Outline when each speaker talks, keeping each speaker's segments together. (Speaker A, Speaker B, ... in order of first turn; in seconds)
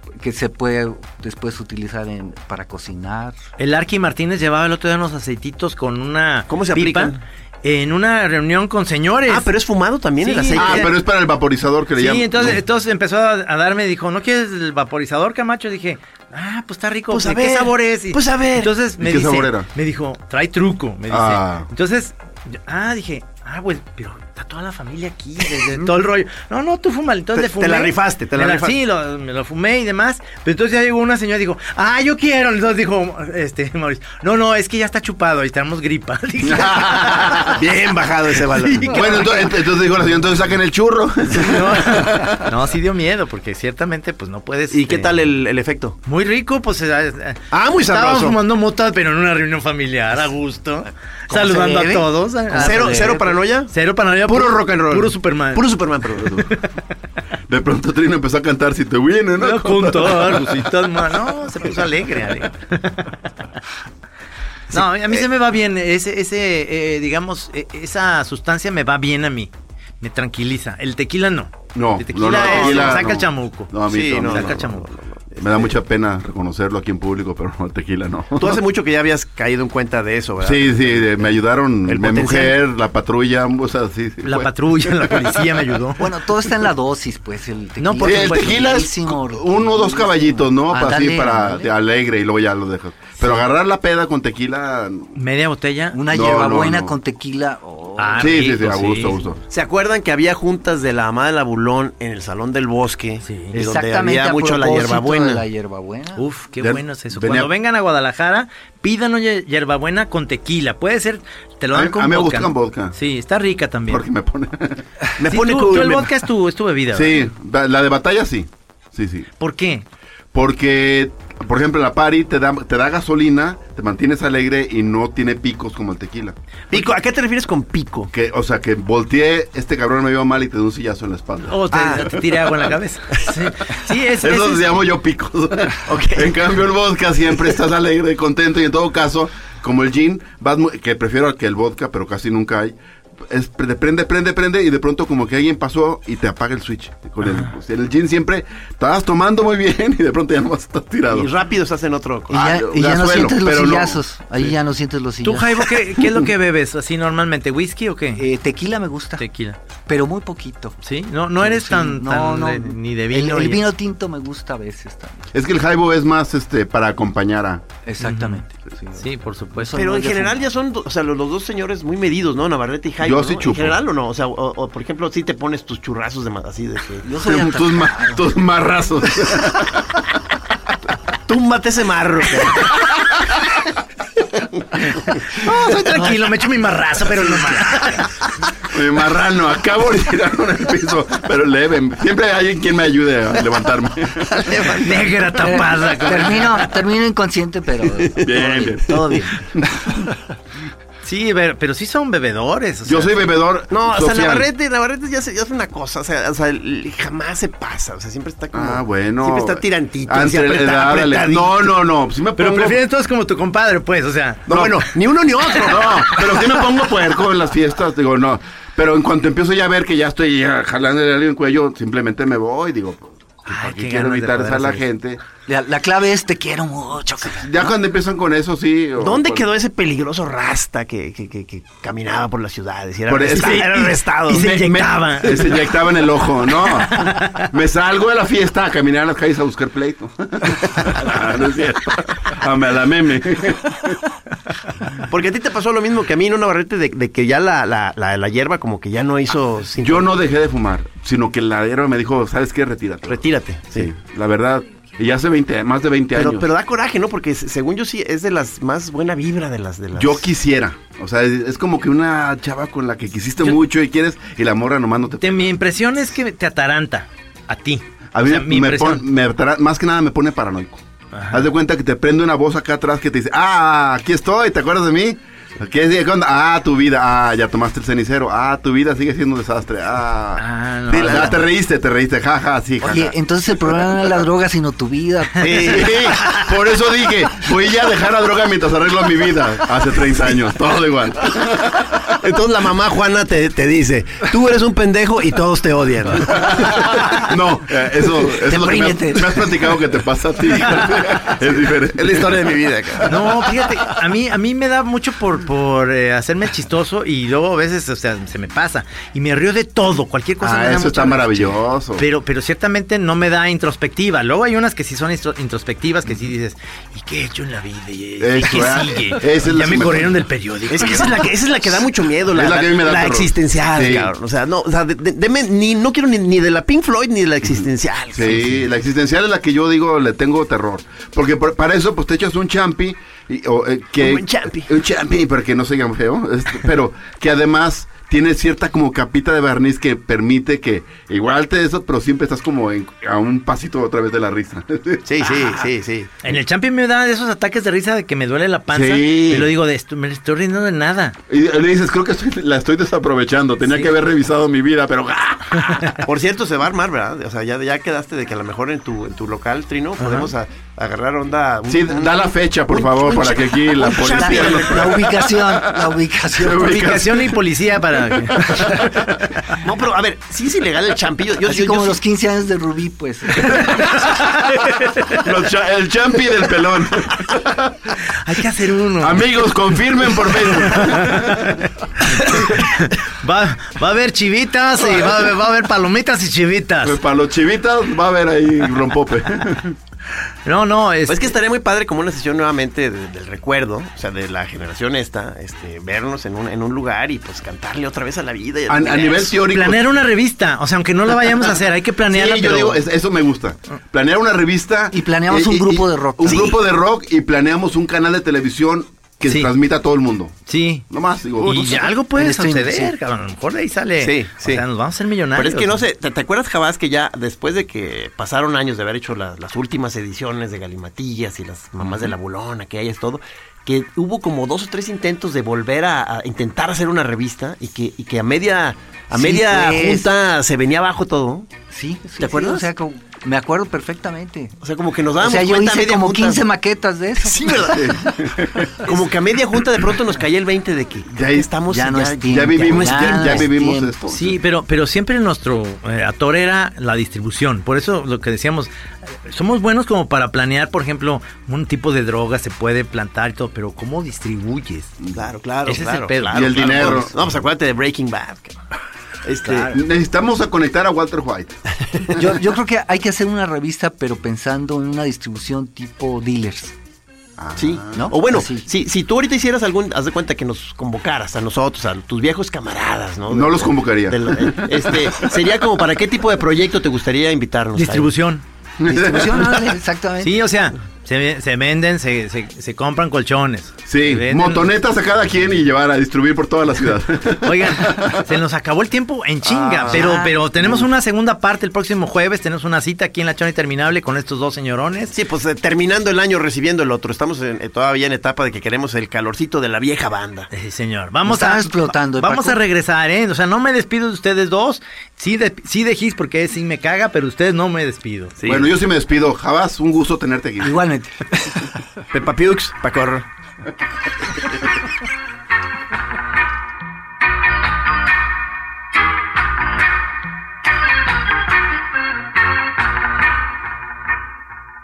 Speaker A: 0.2-3.4, 51.3-53.4, 86.0-91.7, 95.9-98.4, 103.5-106.2, 152.3-155.7, 158.2-159.2, 159.9-160.8, 161.4-165.3, 167.8-170.5, 177.0-178.2, 195.4-199.5, 225.5-227.5, 282.8-286.0, 298.3-299.5, 364.0-367.1, 371.4-373.6, 404.9-406.6, 411.4-412.9, 429.1-430.1, 431.7-434.6, 435.2-438.3, 441.7-444.1, 462.1-466.8, 467.9-468.7, 478.9-480.4, 489.9-490.3, 501.3-502.6, 510.6-511.8
Speaker B: 3.6-9.5, 10.2-10.9, 11.9-37.6, 38.5-39.5, 41.3-45.2, 46.1-53.1, 53.7-56.7, 59.4-63.2, 64.7-74.9, 84.2-86.1, 87.8-88.7, 95.2-96.0, 98.0-99.2, 103.2-103.5, 106.2-114.1, 115.2-117.3, 119.4-119.9, 131.5-134.9, 155.2-158.3, 159.2-159.6, 160.8-163.7, 168.0-168.4, 169.0-169.8, 185.3-188.1, 194.8-196.7, 201.0-203.2, 212.4-214.7, 215.4-216.6, 223.5-224.8, 233.2-235.9, 236.6-237.5, 265.2-269.1, 271.1-271.4, 280.4-281.5, 285.4-286.4, 303.1-321.4, 346.2-351.2, 355.6-356.0, 360.0-360.3, 366.5-369.0, 373.6-375.3, 378.1-387.0, 390.4-391.4, 399.5-402.8, 410.5-410.9, 411.4-415.8, 444.1-455.0, 455.7-457.1, 477.8-478.4, 480.2-484.7, 487.4-495.1, 500.5-508.4
Speaker C: 6.5-7.2, 9.3-10.9, 17.1-18.7, 27.4-28.8, 37.5-39.5, 44.7-46.0, 47.5-48.4, 52.6-53.7, 54.3-56.5, 64.7-65.3, 72.3-73.1, 73.9-75.8, 78.4-81.3, 81.9-82.6, 99.5-105.5, 115.2-116.1, 126.7-128.1, 135.8-136.3, 151.1-152.6, 169.8-177.1, 181.3-182.8, 184.3-186.3, 187.3-188.0, 194.3-195.9, 203.7-211.7, 214.5-216.2, 229.0-234.6, 245.0-250.1, 253.1-253.9, 256.1-260.3, 285.4-286.4, 291.9-297.3, 301.1-303.4, 320.7-328.7, 334.0-334.7, 345.1-346.1, 356.1-365.2, 369.6-372.0, 391.1-399.4, 406.3-406.6, 414.0-414.6, 415.4-431.5, 432.2-432.7, 434.6-436.5, 437.2-438.2, 438.8-443.5, 455.1-458.6, 459.2-459.8, 467.6-478.1, 489.4-490.3, 495.1-500.5, 508.4-508.7, 512.1-513.3
Speaker D: 10.6-12.6, 19.0-19.7, 21.1-21.7, 36.4-37.6, 38.9-42.5, 57.5-60.8, 71.8-74.7, 75.4-78.6, 80.4-85.4, 88.0-95.2, 96.1-97.0, 98.2-99.4, 106.6-107.5, 111.7-113.0, 113.9-114.8, 116.9-119.3, 120.3-126.3, 128.1-132.7, 134.2-142.8, 143.3-151.3, 152.3-154.6, 165.3-167.6, 173.0-173.8, 177.2-180.1, 188.7-194.8, 198.2-200.0, 202.8-204.5, 208.5-212.8, 214.5-214.8, 215.7-225.2, 227.3-229.5, 233.1-233.8, 234.3-244.0, 249.8-256.5, 259.9-265.6, 268.1-283.1, 285.6-292.0, 296.2-303.1, 310.4-312.1, 318.2-320.2, 322.3-324.1, 328.1-345.4, 348.7-349.5, 351.3-356.0, 361.7-367.4, 367.9-368.9, 373.6-377.9, 379.0-381.6, 382.2-382.6, 386.8-389.8, 398.7-399.9, 402.1-410.4, 410.9-411.8, 437.5-438.9, 441.1-441.5, 442.3-444.4, 455.0-455.3, 456.3-457.1, 459.7-461.6, 467.4-468.1, 473.3-475.5, 478.8-479.6, 483.9-488.2, 490.6-490.9, 508.5-510.8